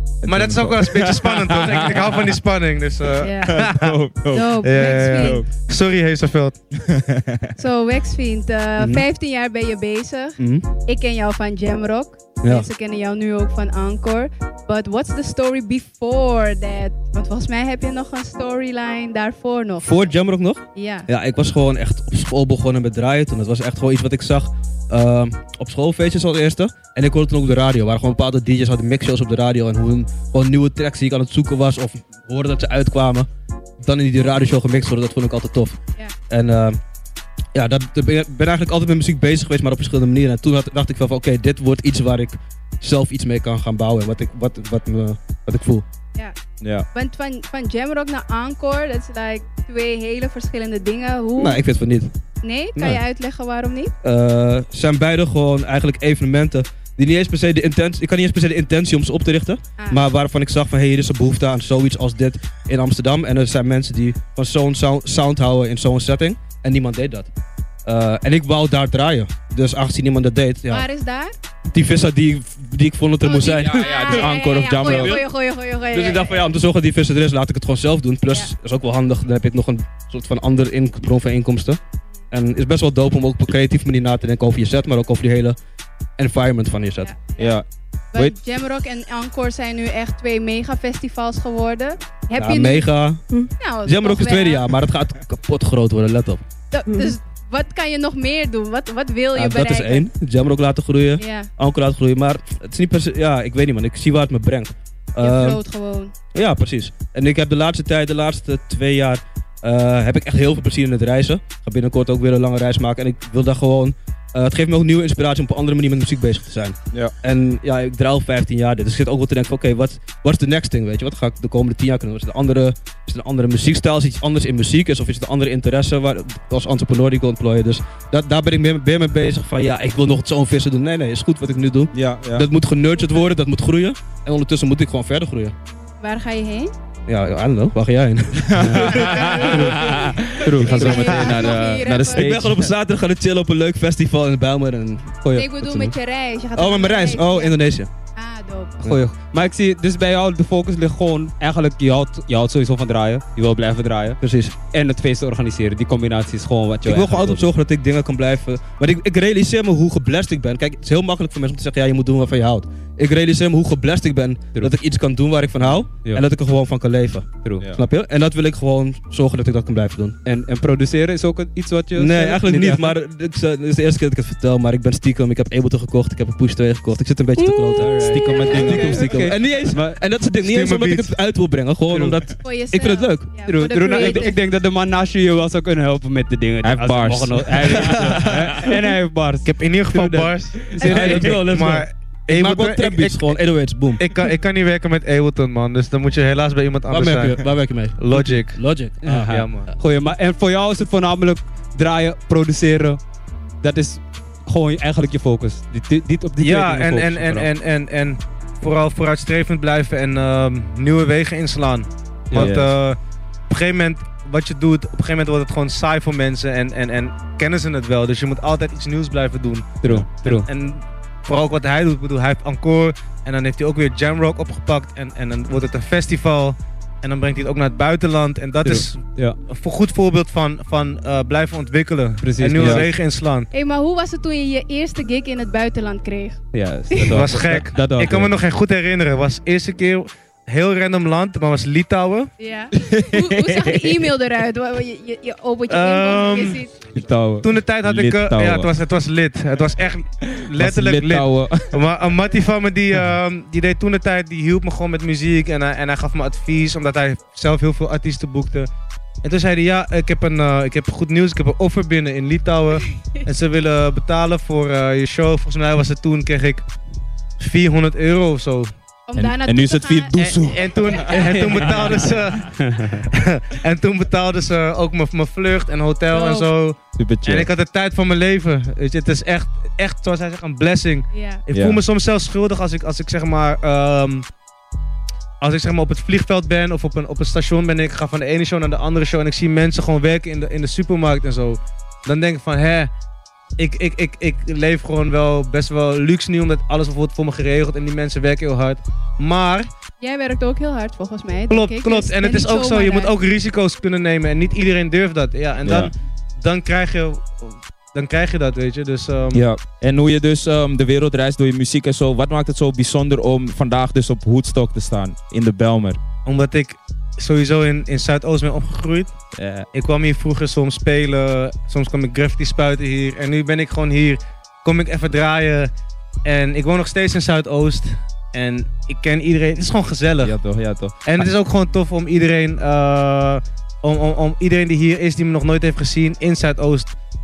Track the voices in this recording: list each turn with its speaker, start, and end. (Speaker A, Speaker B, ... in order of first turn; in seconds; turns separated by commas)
Speaker A: 0.2-2.4, Speaker B: 0.3-4.0, Speaker C: 3.2-3.6, Speaker A: 3.4-5.5, Speaker C: 4.3-5.4, Speaker B: 4.6-6.6, Speaker A: 6.8-7.4, Speaker C: 7.6-20.0, Speaker D: 8.8-9.1, Speaker D: 10.4-10.7, Speaker D: 12.4-12.7, Speaker D: 19.8-33.3, Speaker C: 20.8-21.1, Speaker D: 33.8-35.8, Speaker D: 36.3-36.8, Speaker D: 37.5-45.9, Speaker A: 46.6-46.9, Speaker C: 46.9-51.6, Speaker D: 51.4-52.1, Speaker C: 52.4-53.9, Speaker D: 52.8-53.0, Speaker D: 54.0-67.3, Speaker C: 59.8-60.1, Speaker D: 67.9-70.9, Speaker C: 70.7-71.3, Speaker D: 71.7-74.3, Speaker C: 73.2-76.5, Speaker A: 73.7-75.2, Speaker D: 74.8-75.2, Speaker D: 75.9-81.8, Speaker D: 82.3-85.6, Speaker D: 86.2-87.1, Speaker C: 87.0-87.6, Speaker A: 87.4-88.4, Speaker C: 88.1-93.0, Speaker D: 92.4-97.1, Speaker C: 93.6-94.7, Speaker C: 96.7-100.1, Speaker D: 99.3-105.6, Speaker C: 101.2-101.5, Speaker C: 105.2-106.1, Speaker D: 106.3-135.6, Speaker A: 131.9-132.5, Speaker C: 136.0-136.7, Speaker D: 137.1-138.9, Speaker A: 138.6-142.7, Speaker E: 138.6-139.0, Speaker C: 138.9-142.3, Speaker D: 139.4-139.8, Speaker E: 140.4-141.0, Speaker D: 140.7-141.4, Speaker D: 142.1-145.9, Speaker E: 145.2-145.5, Speaker C: 145.3-148.8, Speaker D: 146.6-147.9, Speaker E: 148.8-154.2, Speaker D: 154.2-154.6, Speaker E: 154.7-157.5, Speaker D: 156.8-170.2, Speaker E: 170.2-172.9, Speaker D: 171.9-183.3, Speaker E: 177.4-180.0, Speaker A: 178.1-179.2, Speaker C: 178.3-178.9, Speaker B: 180.4-181.1, Speaker E: 181.9-182.2, Speaker C: 182.4-184.4, Speaker E: 183.5-191.4, Speaker A: 186.6-187.5, Speaker D: 187.7-188.0, Speaker B: 189.4-193.3, Speaker D: 190.8-194.1, Speaker B: 194.0-197.4, Speaker D: 196.9-199.3, Speaker B: 198.0-198.6, Speaker E: 199.0-203.0, Speaker B: 199.2-199.7, Speaker E: 203.6-207.5, Speaker B: 206.4-213.0, Speaker E: 212.3-212.7, Speaker B: 213.5-219.7, Speaker E: 219.8-220.5, Speaker B: 220.2-233.5, Speaker E: 228.6-229.4, Speaker E: 232.2-232.9, Speaker D: 232.6-232.9, Speaker C: 233.5-236.4, Speaker E: 236.5-238.4, Speaker B: 237.1-242.3, Speaker C: 242.4-246.8, Speaker A: 242.8-244.1, Speaker B: 245.7-246.6, Speaker A: 246.9-248.7, Speaker B: 247.4-258.7, Speaker A: 250.2-251.8, Speaker B: 259.2-266.7, Speaker B: 267.4-268.7, Speaker C: 269.1-271.4, Speaker A: 269.2-271.3, Speaker B: 270.2-284.3, Speaker E: 271.2-272.9, Speaker C: 276.1-276.5, Speaker A: 277.0-277.5, Speaker C: 281.1-281.4, Speaker A: 281.5-281.8, Speaker B: 285.4-292.9, Speaker B: 293.6-299.7, Speaker C: 300.0-303.1, Speaker B: 301.5-309.4, Speaker A: 305.6-305.9, Speaker A: 309.3-316.0, Speaker B: 316.2-319.1, Speaker A: 319.4-319.7, Speaker B: 319.7-325.7, Speaker B: 326.2-330.4, Speaker A: 330.2-331.3, Speaker B: 331.0-336.9